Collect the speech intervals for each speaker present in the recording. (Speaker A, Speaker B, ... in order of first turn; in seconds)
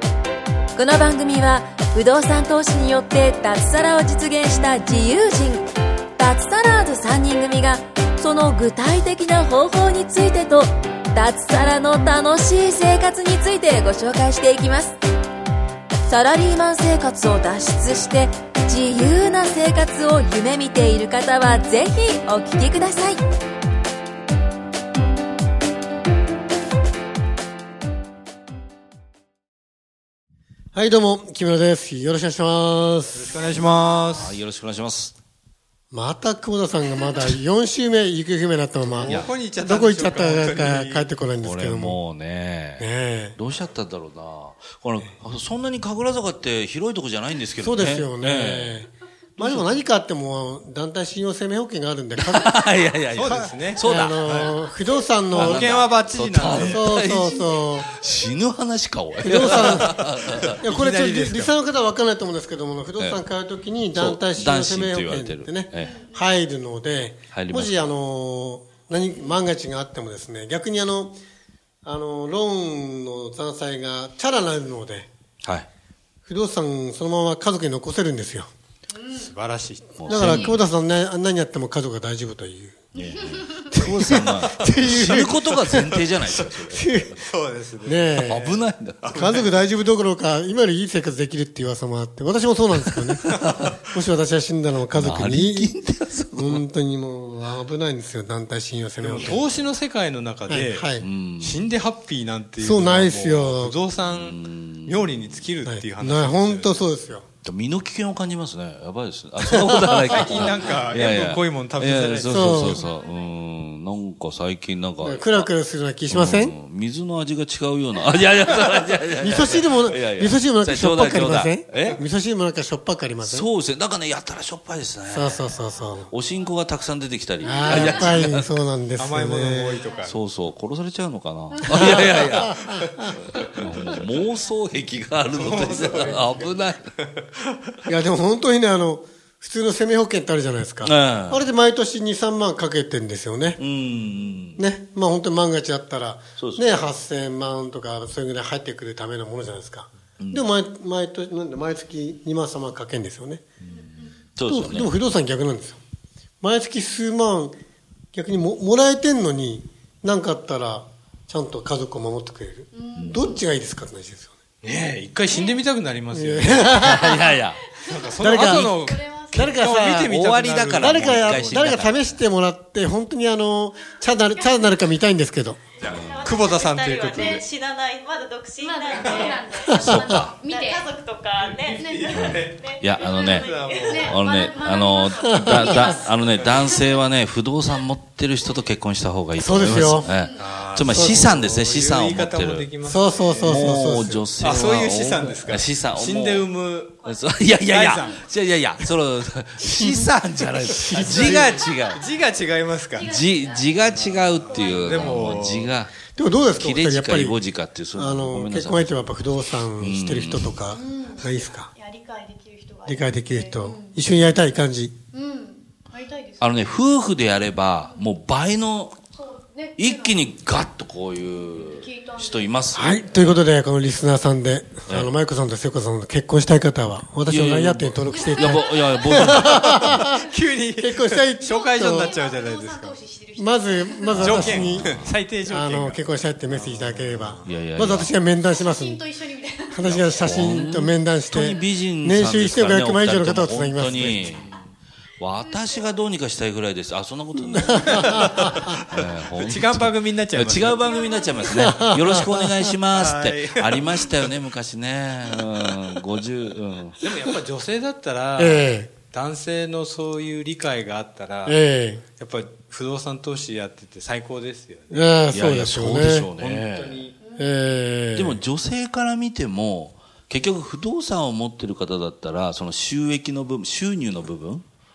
Speaker A: 0.8-15.0, 16.1-23.2
Speaker B: 30.7-33.4, 35.9-42.0, 42.8-43.4, 47.6-52.6, 53.8-55.7, 56.6-57.9, 59.2-60.1, 60.6-71.2, 71.8-75.1, 76.3-78.5, 80.1-86.1, 86.6-87.1, 87.8-88.5, 89.2-93.4, 93.9-95.8, 96.3-99.5, 100.5-101.0, 102.6-103.8, 105.7-107.3, 109.4-110.6, 112.3-112.9, 115.0-116.5, 119.2-123.5, 125.1-126.1, 127.4-129.8, 131.7-133.2, 137.9-143.6, 144.6-153.4, 154.5-155.8, 156.4-157.6, 158.1-164.3, 166.1-167.3, 168.2-170.2, 170.8-175.7, 185.2-185.9, 189.4-190.1, 190.8-191.4, 192.8-194.3, 199.6-201.6, 206.2-207.4, 207.9-211.7, 212.8-214.9, 222.7-230.2, 230.8-232.2, 233.4-239.0, 239.7-244.3, 247.6-248.8, 251.5-252.5, 258.4-258.9, 261.5-262.0, 264.9-266.3, 267.4-268.4
Speaker C: 33.1-34.4, 39.0-41.1, 53.1-54.5, 55.3-57.0, 59.6-61.5, 79.1-80.5, 86.2-86.5, 87.2-89.6, 99.0-106.8, 110.1-112.7, 129.0-130.2, 133.5-134.1, 135.3-137.7, 164.6-166.9, 167.8-171.8, 175.8-177.4, 181.4-182.7, 183.3-184.3, 185.8-186.7, 190.4-198.2, 200.9-203.2, 203.9-205.8, 229.4-233.0, 234.2-237.6, 247.8-251.4, 252.9-254.4, 257.0-261.6, 262.2-264.9, 266.4-267.2
Speaker D: 34.1-35.1, 41.4-48.8, 49.4-49.8, 52.2-54.5, 55.3-60.6, 63.9-66.0, 67.3-67.9, 75.4-75.7, 80.0-80.6, 83.0-87.2, 88.2-89.2, 92.9-93.8, 94.9-96.6, 101.0-101.7, 104.1-105.4, 107.4-115.5, 116.1-122.0, 123.2-125.5, 126.1-128.6, 130.1-136.9, 140.8-141.5, 143.6-144.6, 146.4-146.9, 150.2-150.5, 154.4-154.9, 162.9-163.4, 166.8-167.8, 170.1-172.1, 175.8-176.3, 179.8-180.3, 182.1-192.7, 193.4-196.5, 197.0-202.0, 203.1-206.0, 206.6-209.2, 209.8-210.6, 216.4-219.0, 219.8-223.4, 224.9-225.1, 227.3-230.1, 234.1-235.1, 237.4-238.1, 239.8-244.5, 245.2-257.0, 265.3-267.1, 268.2-274.6
Speaker E: 65.8-66.2, 83.1-83.4, 112.8-113.3, 127.5-128.2, 153.7-154.1, 162.7-163.3, 165.3-165.6, 166.8-169.7, 174.3-174.9, 177.1-177.4, 178.6-180.9, 181.7-182.4, 183.0-187.0, 190.0-190.4, 203.0-205.6, 210.7-214.0, 215.1-216.7, 219.1-220.3, 221.4-222.5, 229.4-229.8, 231.4-234.4, 238.5-240.0, 245.5-245.9, 250.9-251.5
Speaker F: 175.8-185.0